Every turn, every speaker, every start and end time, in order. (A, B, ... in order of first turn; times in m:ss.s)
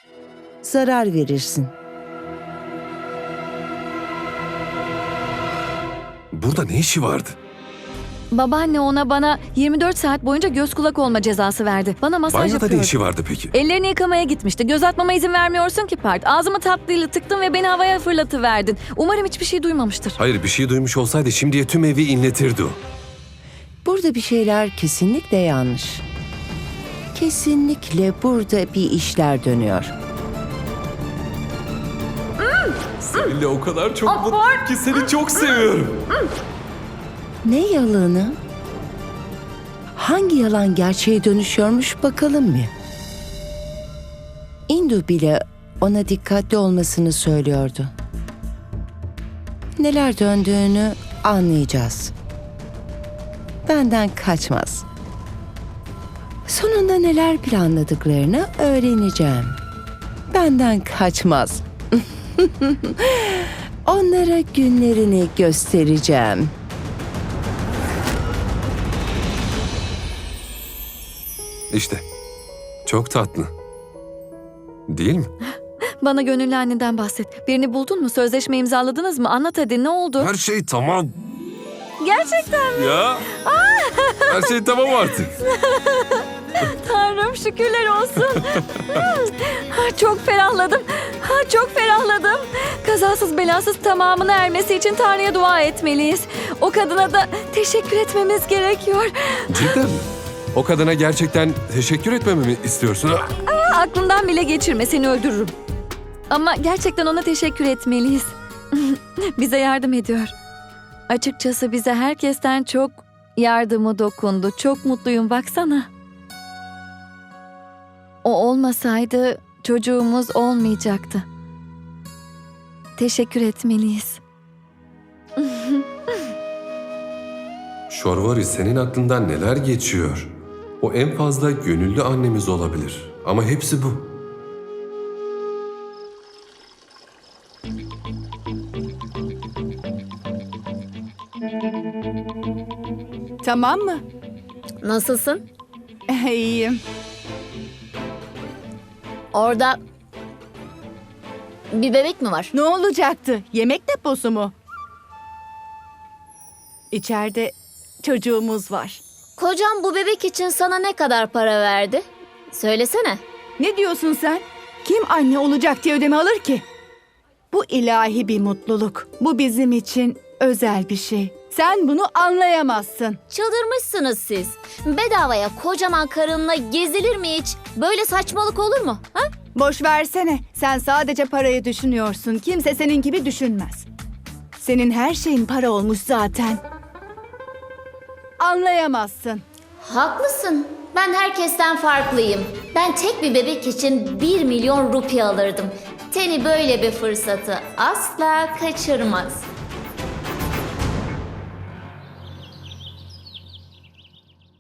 0:00.6-0:01.7 A
0:06.3-0:07.4 B
0:08.3-0:12.9 C
0:12.3-0:13.5 B
0:13.5-0:20.2 C
0:20.2-0:22.8 B
0:23.8-0:26.0 A
0:27.1-0:29.9 A
0:33.0-0:36.0 B
0:37.4-0:38.4 A
0:39.9-0:42.7 A
0:44.7-0:47.9 A
0:49.8-0:52.1 A
0:53.6-0:54.8 A
0:56.5-0:59.6 A
1:00.3-1:06.5 A
1:11.7-1:12.0 B
1:12.9-1:13.5 B
1:14.9-1:15.3 B
1:16.0-1:20.3 C
1:20.2-1:21.2 B
1:22.0-1:24.5 C
1:22.8-1:23.2 B
1:24.3-1:25.4 B
1:25.5-1:39.8 C
1:39.5-1:43.3 B
1:43.5-1:45.5 C
1:46.3-1:50.3 C
1:51.1-1:55.9 C
1:58.2-2:01.3 C
2:03.0-2:04.2 C
2:05.4-2:06.2 C
2:07.9-2:10.3 B
2:10.8-2:14.0 B
2:23.4-2:24.0 D
2:24.8-2:25.4 E
2:26.1-2:26.8 D
2:29.3-2:29.8 E
2:31.7-2:32.5 E
2:32.5-2:34.5 D
2:36.9-2:39.0 D
2:39.4-2:43.2 E
2:43.6-2:46.7 D
2:47.5-2:53.2 D
2:53.3-2:59.3 E
2:59.5-3:03.9 D
3:04.6-3:06.6 D
3:08.4-3:09.4 D
3:09.8-3:19.5 E